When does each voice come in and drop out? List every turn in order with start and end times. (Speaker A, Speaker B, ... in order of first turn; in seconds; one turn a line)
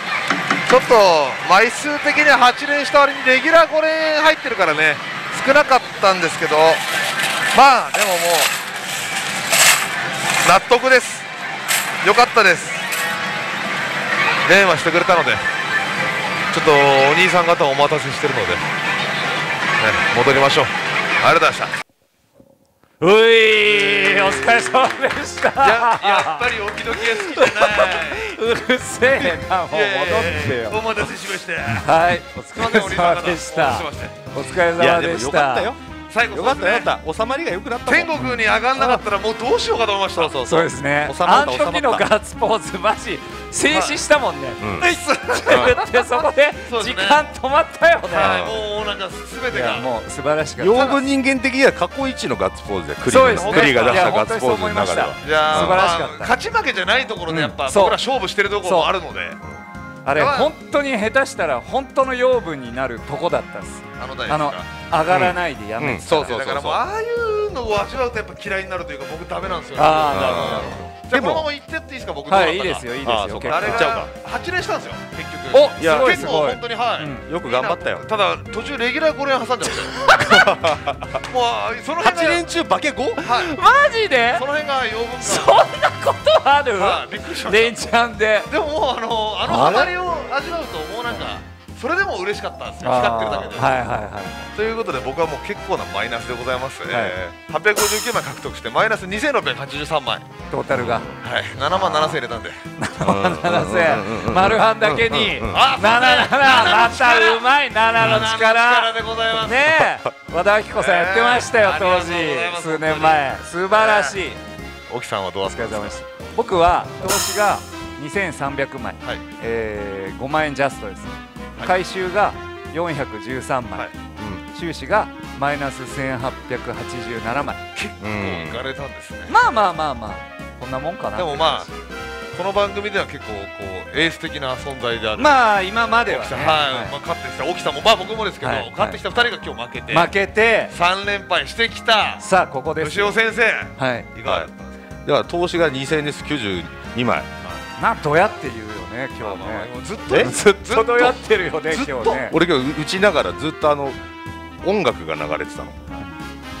Speaker A: 0.7-6.8
Speaker A: 7.5-8.5
Speaker A: 10.4-11.3
Speaker A: 12.0-12.8
Speaker A: 14.4-15.4
Speaker A: 16.5-18.7
Speaker A: 19.8-21.8
Speaker B: 23.0-26.4
Speaker A: 25.6-28.4
Speaker B: 26.9-30.8
Speaker A: 29.1-31.9
Speaker B: 31.7-35.7
Speaker A: 32.5-34.2
Speaker C: 34.8-38.3
Speaker A: 36.1-36.9
Speaker A: 37.9-40.3
Speaker B: 38.8-39.0
Speaker C: 40.1-42.0
Speaker B: 40.4-48.5
Speaker A: 43.7-44.0
Speaker C: 44.6-44.9
Speaker A: 44.8-47.2
Speaker C: 45.5-45.7
Speaker A: 48.1-49.9
Speaker C: 48.2-48.6
Speaker B: 49.5-51.0
Speaker C: 50.6-56.0
Speaker B: 53.0-56.3
Speaker A: 53.3-54.1
Speaker A: 55.2-59.4
Speaker C: 57.3-57.5
Speaker B: 57.6-58.0
Speaker B: 58.6-58.9
Speaker B: 60.0-66.4
Speaker A: 60.1-60.5
Speaker A: 64.0-64.7
Speaker C: 65.1-66.8
Speaker A: 66.2-72.9
Speaker B: 69.8-70.8
Speaker C: 70.1-71.5
Speaker B: 72.3-74.0
Speaker C: 73.0-74.1
Speaker A: 73.4-80.3
Speaker B: 75.5-77.2
Speaker C: 75.8-76.3
Speaker C: 77.2-78.0
Speaker B: 80.0-80.6
Speaker C: 80.3-81.0
Speaker A: 81.1-82.4
Speaker C: 82.0-83.2
Speaker A: 83.2-83.5
Speaker B: 83.2-84.5
Speaker A: 84.3-85.6
Speaker B: 85.2-88.5
Speaker A: 86.7-87.9
Speaker A: 88.5-93.8
Speaker B: 89.5-89.9
Speaker B: 92.8-94.5
Speaker A: 94.5-100.3
Speaker B: 96.9-97.2
Speaker B: 100.5-101.1
Speaker C: 100.7-101.1
Speaker A: 101.2-102.6
Speaker B: 102.8-114.4
Speaker C: 103.0-105.7
Speaker A: 105.5-107.4
Speaker A: 108.0-109.7
Speaker A: 110.7-114.2
Speaker A: 114.9-116.0
Speaker B: 115.5-123.8
Speaker C: 124.2-124.4
Speaker B: 124.5-127.6
Speaker A: 127.8-129.3
Speaker C: 128.0-128.6
Speaker B: 129.3-131.7
Speaker A: 131.2-131.7
Speaker A: 132.3-135.4
Speaker B: 135.2-136.9
Speaker A: 136.1-140.1
Speaker B: 138.4-139.0
Speaker B: 139.9-140.7
Speaker A: 140.7-142.2
Speaker B: 142.2-143.2
Speaker A: 142.8-144.8
Speaker B: 143.8-144.1
Speaker C: 144.2-144.5
Speaker C: 145.0-147.3
Speaker B: 147.8-152.3
Speaker A: 149.2-152.2
Speaker C: 152.2-154.0
Speaker C: 154.6-155.8